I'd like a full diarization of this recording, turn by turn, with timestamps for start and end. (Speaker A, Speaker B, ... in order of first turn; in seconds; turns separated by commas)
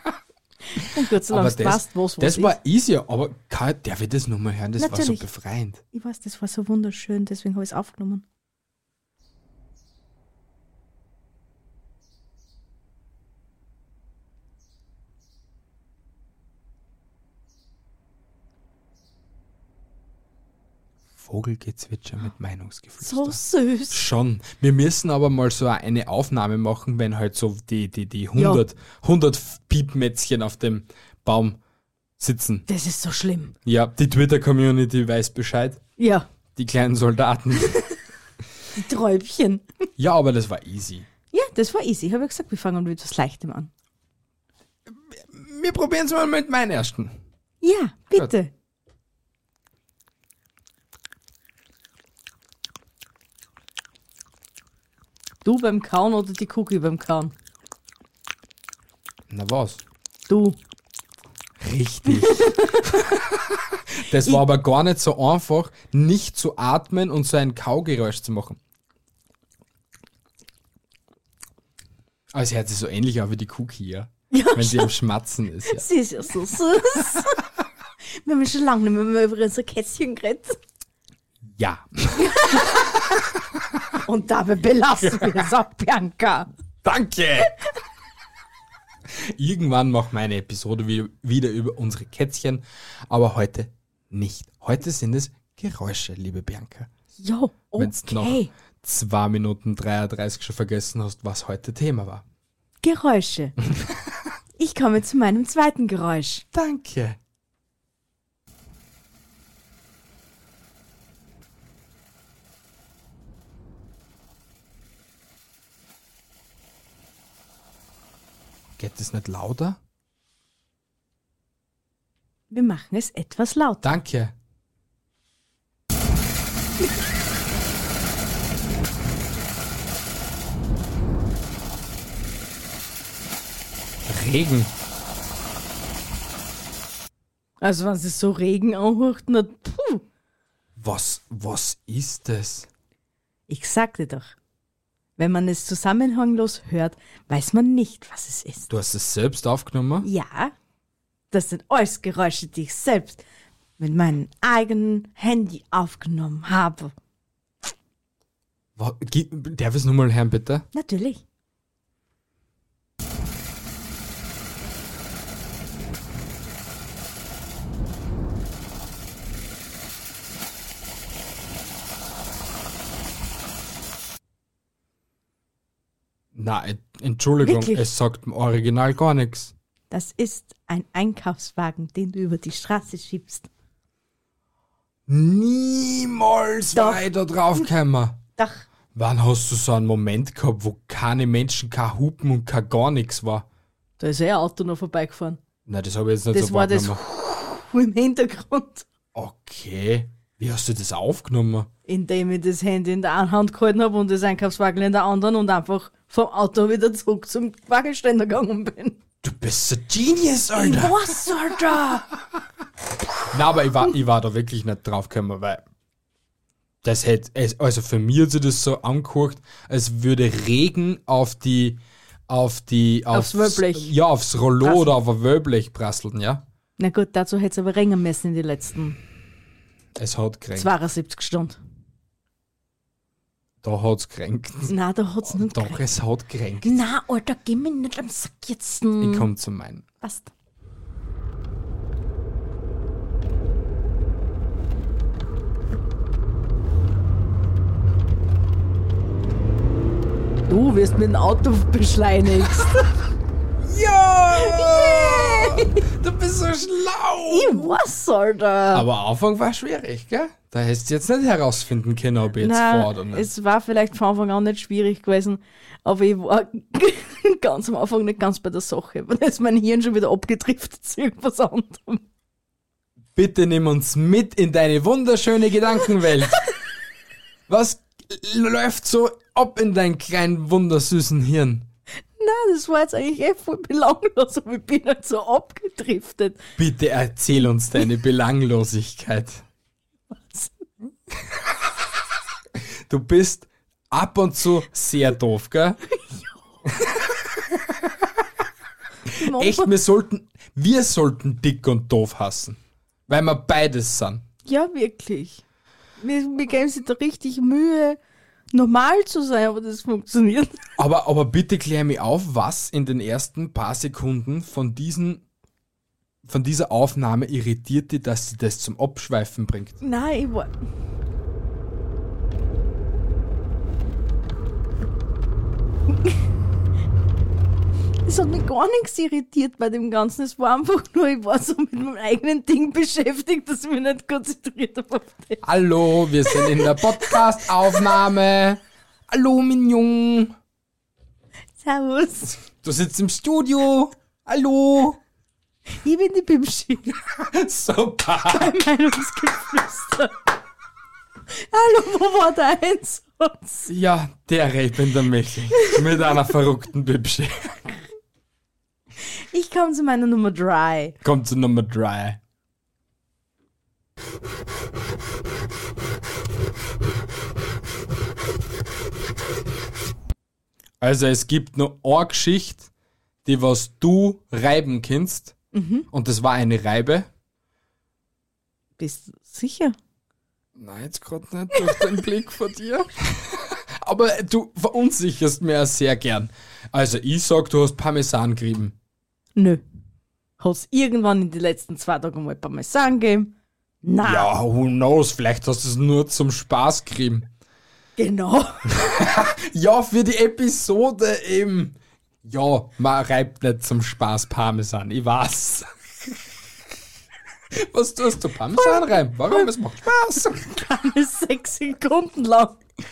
Speaker A: 0.8-2.5, Speaker B: 1.3-5.8, Speaker A: 4.8-5.2, Speaker A: 5.9-8.2, Speaker B: 21.2-23.4, Speaker A: 23.0-24.0, Speaker B: 23.9-31.6, Speaker A: 28.4-28.6, Speaker B: 32.2-32.6, Speaker A: 32.7-33.5, Speaker B: 33.6-35.8, Speaker A: 36.0-36.3, Speaker B: 36.5-37.7, Speaker A: 38.7-39.6, Speaker B: 40.0-41.1, Speaker A: 41.3-43.7, Speaker B: 44.9-47.2, Speaker A: 47.6-48.5, Speaker A: 55.4-57.3, Speaker B: 59.3-59.8, Speaker A: 60.3-60.6, Speaker B: 61.6-63.0, Speaker A: 62.1-63.1, Speaker B: 64.0-68.6, Speaker B: 72.3-75.9, Speaker A: 74.3-74.9, Speaker A: 75.7-77.4, Speaker A: 78.2-80.6, Speaker B: 81.5-84.0, Speaker A: 82.2-82.7, Speaker A: 84.0-86.5, Speaker B: 85.0-85.5, Speaker B: 86.8-87.5, Speaker B: 89.2-96.9, Speaker A: 97.2-98.5, Speaker B: 97.8-102.2, Speaker A: 102.8-103.6, Speaker A: 104.6-106.4, Speaker B: 106.5-107.2, Speaker B: 118.8-119.8, Speaker A: 122.5-124.0, Speaker B: 123.8-124.3, Speaker B: 134.1-134.7, Speaker A: 137.6-140.0, Speaker B: 140.8-142.7, Speaker A: 143.5-144.3, Speaker A: 145.2-148.7, Speaker B: 148.7-150.1, Speaker A: 150.0-150.5, Speaker A: 151.3-153.2, Speaker A: 153.8-156.9, Speaker B: 158.8-160.7, Speaker A: 160.7-161.2, Speaker B: 176.3-179.5, Speaker A: 177.4-177.9, Speaker A: 179.9-183.5, Speaker B: 185.1-188.2, Speaker A: 186.7-187.7, Speaker A: 188.4-188.6, Speaker B: 188.9-193.4, Speaker A: 194.0-195.4, Speaker B: 195.7-197.0, Speaker A: 196.3-198.8, Speaker B: 199.1-201.7, Speaker A: 201.9-209.0, Speaker B: 209.2-211.1, Speaker A: 210.6-212.1, Speaker B: 213.3-215.6, Speaker B: 216.8-226.4, Speaker A: 223.1-223.9, Speaker A: 224.6-224.9, Speaker A: 226.8-229.0, Speaker B: 229.9-230.7, Speaker A: 230.5-231.6, Speaker B: 233.6-234.7, Speaker A: 234.7-235.8, Speaker B: 235.3-236.7, Speaker A: 236.6-239.3, Speaker B: 239.0-239.8, Speaker A: 240.0-240.3, Speaker A: 250.5-252.9, Speaker B: 253.6-257.8, Speaker A: 254.3-255.8, Speaker A: 257.3-258.9, Speaker B: 258.7-263.3, Speaker A: 262.4-272.0, Speaker B: 273.1-276.4, Speaker B: 277.5-281.7, Speaker A: 282.2-286.4, Speaker B: 286.6-289.4, Speaker A: 290.1-290.7, Speaker B: 292.9-295.8, Speaker A: 299.1-299.7, Speaker B: 299.2-304.2, Speaker A: 304.4-305.4, Speaker A: 306.0-308.0, Speaker A: 308.5-310.6, Speaker B: 310.8-315.2, Speaker B: 316.2-319.8, Speaker A: 319.8-320.5, Speaker A: 328.0-335.4, Speaker B: 335.4-340.3, Speaker A: 336.2-337.8, Speaker A: 341.6-342.4, Speaker B: 342.4-345.0, Speaker A: 345.7-347.0, Speaker B: 347.2-348.6, Speaker A: 348.3-350.1, Speaker A: 351.5-353.7, Speaker B: 353.7-357.6, Speaker A: 359.3-360.9, Speaker B: 361.0-362.2, Speaker B: 370.8-372.7, Speaker B: 373.2-375.3, Speaker A: 375.5-375.9, Speaker B: 375.9-377.1, Speaker A: 378.8-379.8, Speaker B: 380.6-388.7, Speaker A: 389.4-389.6, Speaker A: 390.4-393.3, Speaker A: 393.8-394.3, Speaker B: 394.0-397.3, Speaker A: 398.0-398.7, Speaker B: 398.7-405.7, Speaker B: 407.5-410.5, Speaker A: 410.3-412.6